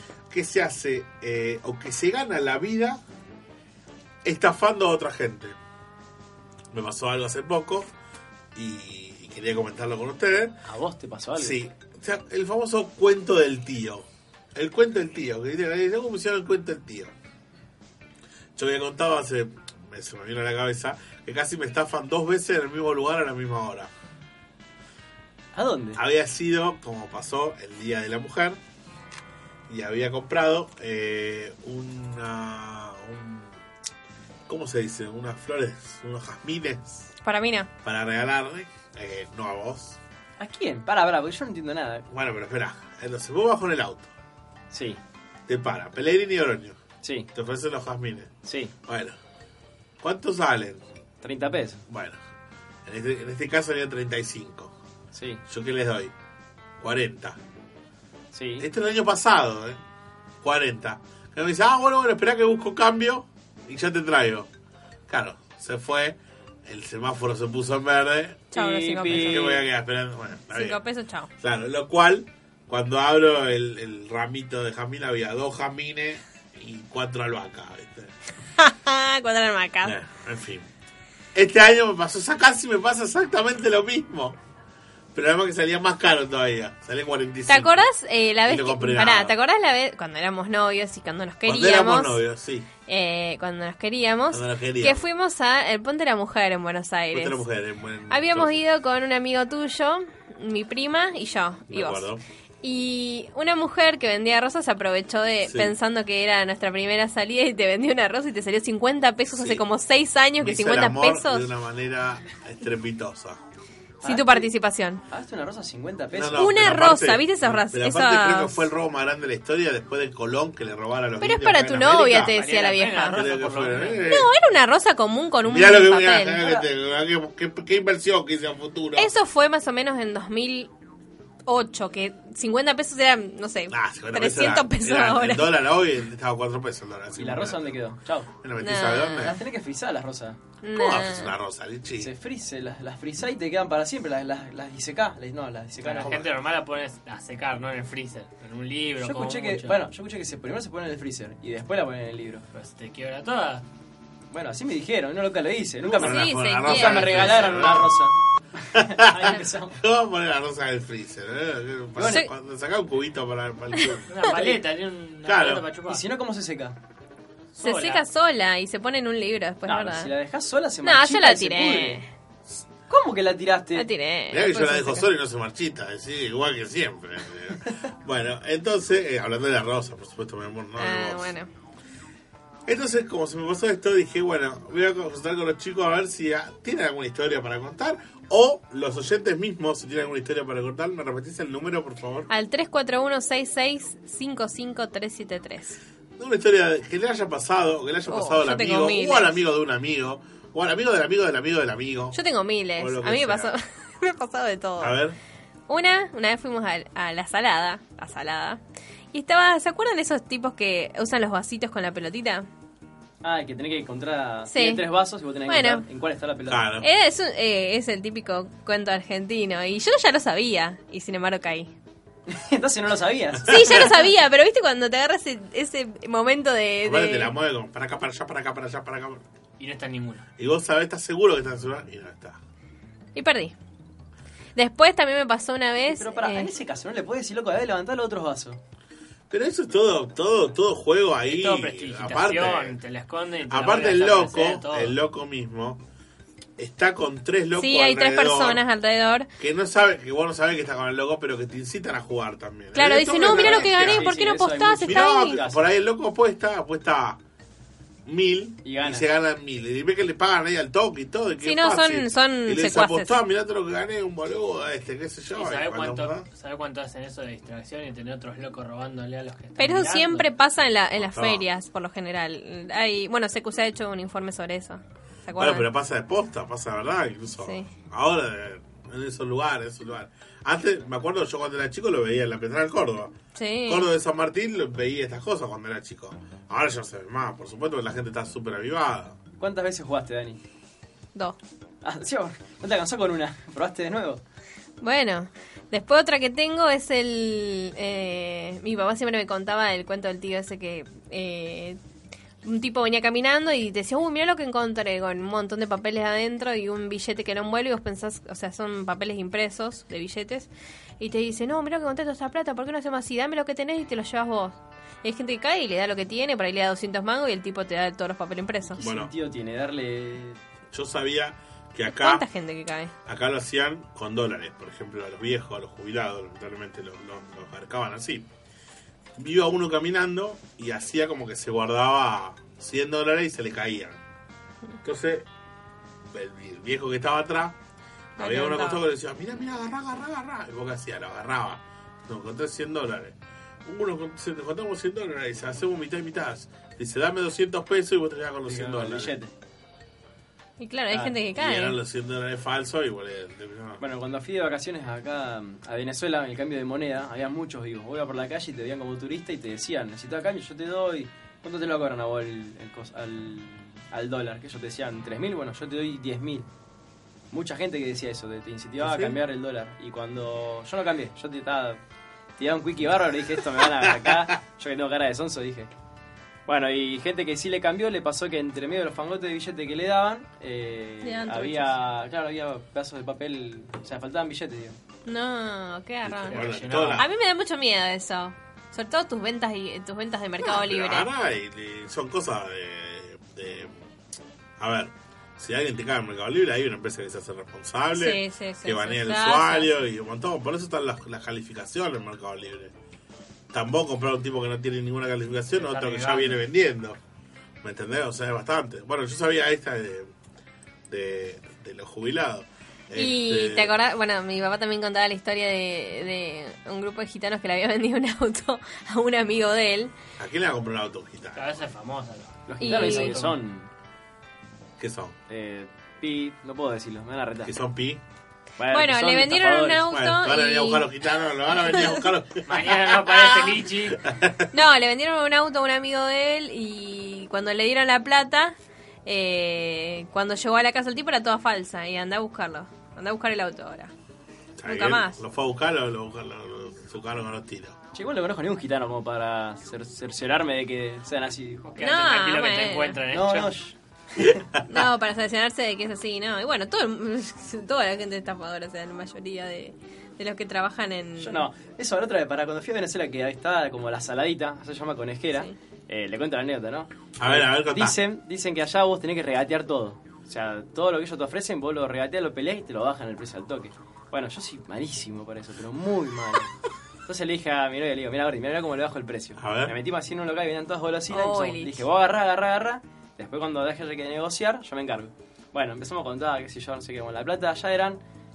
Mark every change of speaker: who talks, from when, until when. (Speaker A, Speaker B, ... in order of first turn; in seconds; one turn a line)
Speaker A: 0.3-3.0
Speaker A: 4.2-5.5
Speaker A: 6.7-7.9
Speaker A: 8.5-10.5
Speaker B: 10.7-11.6
Speaker A: 11.3-17.1
Speaker A: 18.6-23.9
Speaker B: 25.5-26.0
Speaker A: 25.9-28.6
Speaker A: 29.7-33.6
Speaker A: 34.5-37.1
Speaker C: 37.2-37.7
Speaker A: 37.8-40.0
Speaker B: 40.4-42.0
Speaker A: 42.1-44.1
Speaker B: 44.7-45.0
Speaker A: 45.5-46.8
Speaker B: 47.0-47.3
Speaker A: 47.3-48.3
Speaker B: 48.4-48.7
Speaker A: 48.9-49.1
Speaker A: 50.0-50.8
Speaker B: 51.2-51.8
Speaker A: 51.9-52.2
Speaker A: 52.9-54.7
Speaker B: 55.1-55.4
Speaker A: 55.5-56.1
Speaker A: 56.8-57.4
Speaker B: 58.3-58.7
Speaker A: 58.6-59.8
Speaker A: 60.4-64.5
Speaker A: 65.1-68.5
Speaker B: 68.5-69.6
Speaker C: 68.5-69.6
Speaker A: 69.0-70.8
Speaker C: 70.5-71.3
Speaker A: 71.4-78.1
Speaker C: 78.6-79.9
Speaker A: 79.8-80.7
Speaker A: 81.3-84.4
Speaker A: 85.1-87.9
Speaker C: 87.5-92.2
Speaker A: 88.4-89.3
Speaker A: 91.4-92.7
Speaker C: 92.9-97.4
Speaker A: 94.3-95.0
Speaker A: 97.1-98.6
Speaker C: 98.1-102.0
Speaker A: 101.7-102.2
Speaker C: 102.6-111.5
Speaker A: 105.5-105.7
Speaker A: 109.3-109.6
Speaker A: 110.4-113.4
Speaker B: 114.0-114.5
Speaker C: 114.0-115.0
Speaker B: 115.1-116.6
Speaker A: 116.1-122.4
Speaker C: 116.3-118.6
Speaker C: 121.2-123.2
Speaker D: 122.2-124.1
Speaker A: 123.1-124.3
Speaker C: 124.1-126.4
Speaker A: 125.4-129.1
Speaker B: 126.4-126.7
Speaker C: 128.9-130.7
Speaker C: 131.4-135.4
Speaker A: 133.7-137.7
Speaker B: 137.2-138.3
Speaker A: 138.4-139.4
Speaker C: 138.6-139.4
Speaker B: 139.2-140.4
Speaker C: 140.6-141.3
Speaker A: 140.7-142.1
Speaker B: 142.0-146.2
Speaker D: 145.8-149.8
Speaker A: 146.0-146.3
Speaker B: 149.0-152.4
Speaker D: 152.5-153.6
Speaker B: 154.3-159.8
Speaker C: 155.9-157.7
Speaker A: 156.0-158.0
Speaker A: 158.7-164.1
Speaker B: 161.9-162.3
Speaker C: 163.8-164.4
Speaker D: 164.1-166.0
Speaker B: 164.2-164.5
Speaker A: 165.2-165.6
Speaker B: 165.9-166.8
Speaker D: 167.5-168.0
Speaker C: 167.6-170.1
Speaker B: 169.7-172.0
Speaker C: 170.8-172.1
Speaker B: 172.9-173.9
Speaker C: 173.7-175.1
Speaker A: 174.3-181.3
Speaker C: 180.8-181.5
Speaker A: 182.7-192.3
Speaker C: 192.3-195.8
Speaker A: 196.2-202.2
Speaker C: 198.1-199.3
Speaker C: 202.1-205.0
Speaker A: 202.8-203.5
Speaker A: 204.8-205.2
Speaker C: 205.7-208.6
Speaker C: 209.1-212.5
Speaker B: 213.2-216.7
Speaker C: 214.5-214.8
Speaker C: 215.5-215.8
Speaker A: 216.5-216.9
Speaker C: 216.8-221.7
Speaker B: 222.3-224.0
Speaker A: 223.4-223.9
Speaker C: 223.4-227.3
Speaker A: 226.8-229.2
Speaker D: 229.6-230.2
Speaker A: 230.4-232.4
Speaker C: 233.1-233.5
Speaker C: 234.5-236.5
Speaker B: 235.9-238.6
Speaker A: 239.3-242.8
Speaker D: 241.3-244.9
Speaker A: 243.5-245.8
Speaker A: 246.6-248.6
Speaker C: 247.6-249.3
Speaker A: 249.4-254.1
Speaker C: 252.7-255.4
Speaker B: 253.2-255.6
Speaker A: 254.8-257.2
Speaker A: 258.1-266.2
Speaker B: 258.6-259.1
Speaker C: 261.4-263.1
Speaker D: 265.3-270.3
Speaker C: 269.6-275.7
Speaker A: 271.0-271.4
Speaker A: 275.3-283.1
Speaker C: 277.4-277.7
Speaker C: 283.3-283.9
Speaker A: 283.6-289.2
Speaker B: 289.4-290.4
Speaker B: 291.8-294.2
Speaker C: 294.8-301.8
Speaker C: 302.4-318.8
Speaker B: 318.7-320.4
Speaker A: 318.8-319.1
Speaker A: 320.7-322.2
Speaker C: 321.9-322.9
Speaker A: 323.1-328.3
Speaker A: 329.2-334.0
Speaker A: 334.8-335.3
Speaker A: 336.1-337.6
Speaker A: 338.2-349.1
Speaker C: 338.2-338.8
Speaker B: 348.4-349.3
Speaker C: 350.6-351.8
Speaker B: 350.9-351.2
Speaker A: 351.4-353.8
Speaker B: 353.8-366.4
Speaker B: 367.3-371.8
Speaker A: 368.8-369.2
Speaker B: 372.4-375.7
Speaker B: 376.5-384.8
Speaker C: 381.0-381.7
Speaker C: 385.1-391.1
Speaker A: 386.0-387.1
Speaker D: 386.2-387.1
Speaker A: 390.4-393.8
Speaker A: 394.6-402.7
Speaker C: 397.9-399.7
Speaker A: 403.5-407.0
Speaker D: 405.5-406.4
Speaker A: 407.6-410.1
Speaker A: 410.9-413.7
Speaker C: 412.9-419.9
Speaker A: 420.2-421.4
Speaker D: 421.3-423.1
Speaker B: 422.5-423.7
Speaker C: 422.6-423.3
Speaker A: 424.8-425.1
Speaker B: 425.3-427.5
Speaker A: 427.4-428.0
Speaker B: 428.6-429.9
Speaker C: 428.7-430.8
Speaker A: 429.9-434.5
Speaker C: 431.6-432.0
Speaker D: 432.4-434.0
Speaker C: 434.5-443.9
Speaker A: 444.6-447.8
Speaker C: 444.6-445.2
Speaker B: 447.9-451.7
Speaker D: 451.6-453.5
Speaker C: 451.8-453.0
Speaker B: 453.1-454.2
Speaker A: 454.2-454.6
Speaker C: 454.7-461.5
Speaker B: 461.2-476.5
Speaker A: 467.2-468.0
Speaker B: 477.1-488.0
Speaker A: 479.4-479.7
Speaker C: 481.1-481.8